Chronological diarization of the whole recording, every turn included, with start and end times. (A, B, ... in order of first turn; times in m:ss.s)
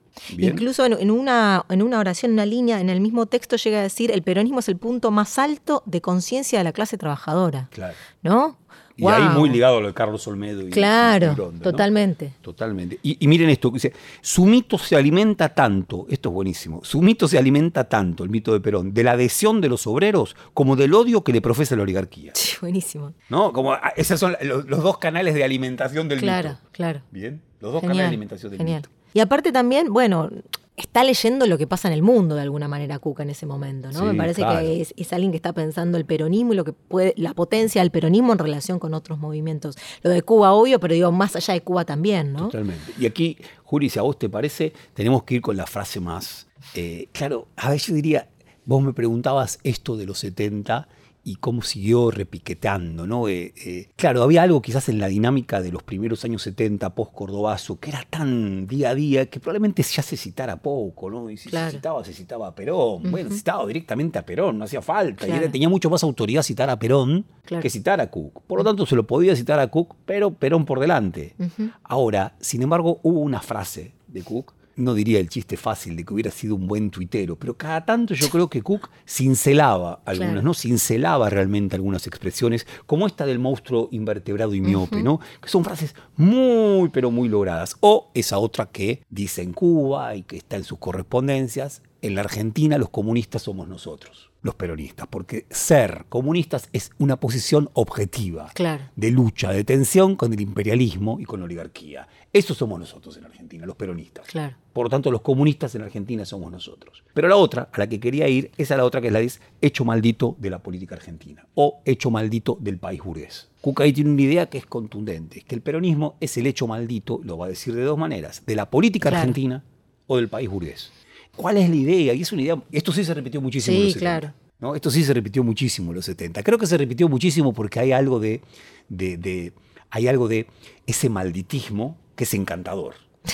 0:00.3-0:00.6 A
0:00.4-0:07.7 B
0:07.7-0:08.0 A
0:08.2-0:09.6 B
0:09.0-0:11.9 A
0:10.7-0:12.4 B
0:12.4-0:22.4 A
0:22.4-0:23.2 B
0:23.3-0:26.6 A
0:26.2-0:27.0 B
0:27.1-0:28.9 A
0:27.8-0:42.5 B
0:33.9-0:34.8 A
0:42.4-2:13.0 A
1:01.5-1:01.8 B
1:03.0-1:03.4 B
1:05.2-1:05.6 B
1:11.4-1:11.7 B
1:24.7-1:25.0 B
1:38.6-1:38.9 B
1:44.3-1:44.6 B
1:59.1-1:59.4 B
2:03.6-2:04.3 B